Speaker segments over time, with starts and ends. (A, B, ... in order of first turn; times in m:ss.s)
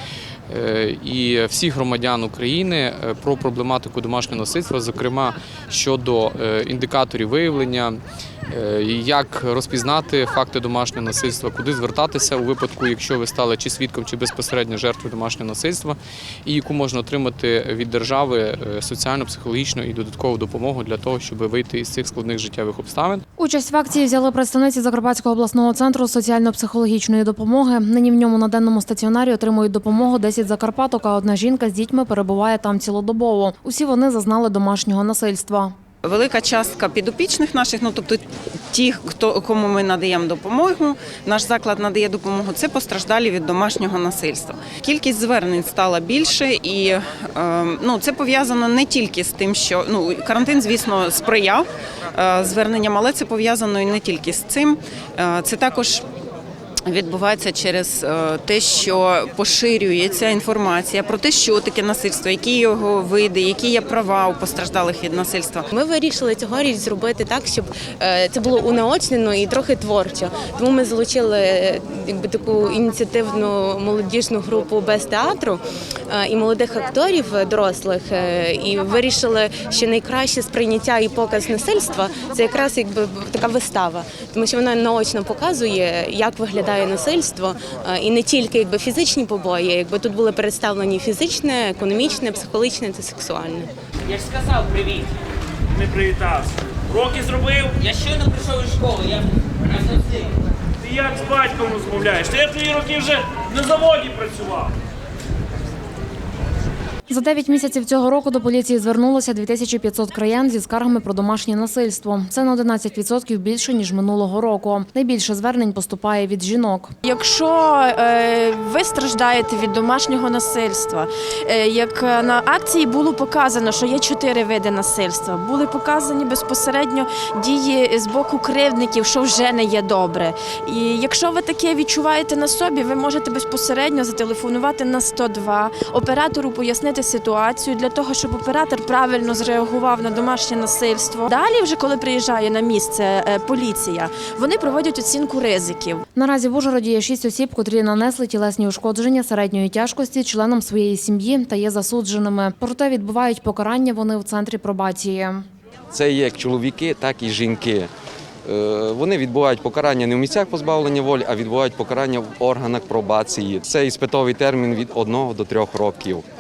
0:00.5-0:07.9 A
0:08.5-0:15.9 A
0:16.5-0:23.2 A
0:23.4-0:35.7 B
0:36.0-0:56.0 C
0:56.8-1:05.7 C
1:05.8-1:33.7 D
1:34.1-1:35.1 E
1:35.9-1:37.6 F
1:37.7-1:40.3 E
1:40.8-1:44.7 F
1:47.1-1:56.9 B
1:57.0-2:26.0 G
2:26.2-2:35.4 B
2:35.9-2:37.9 H
2:38.4-2:46.2 H